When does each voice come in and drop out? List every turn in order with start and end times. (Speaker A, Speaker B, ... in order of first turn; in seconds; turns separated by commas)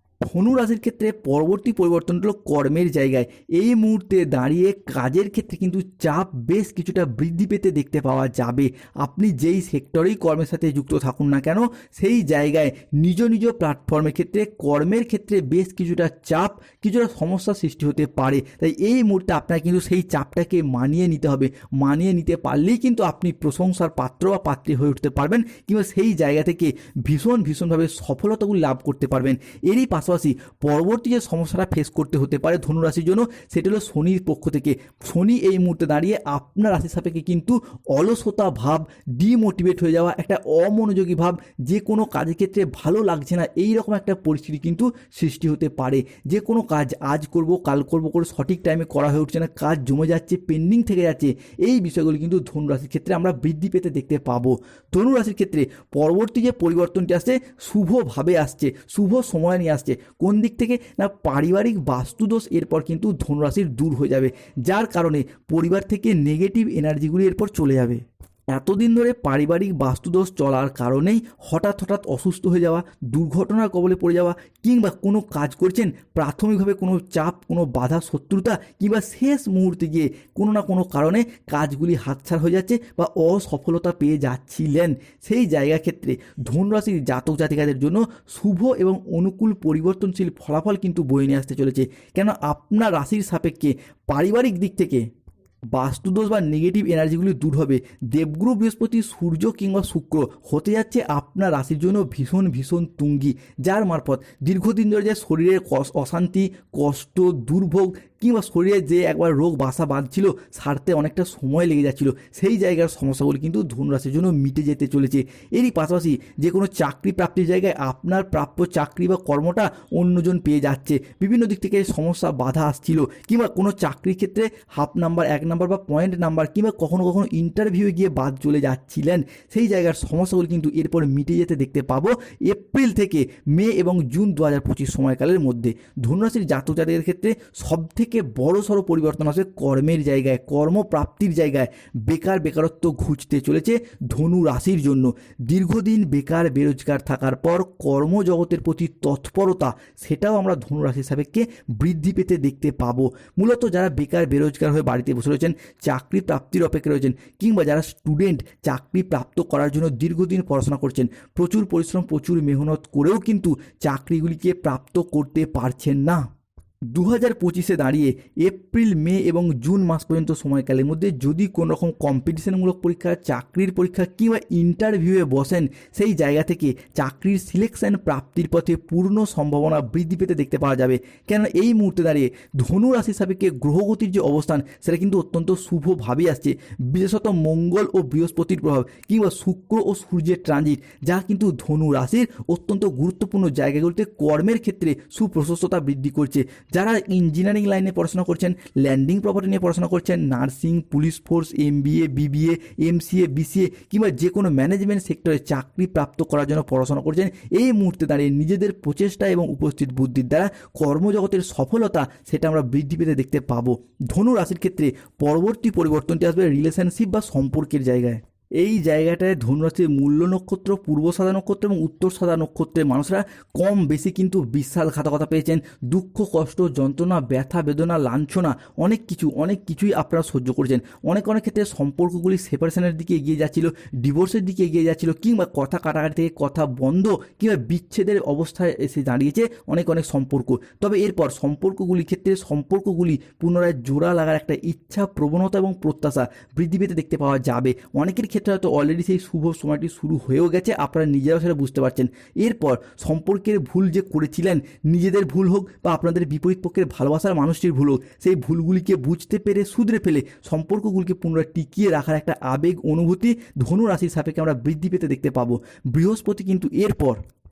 Speaker A: 0.2-95.0, Speaker A: 95.7-166.3, Speaker A: 166.9-267.2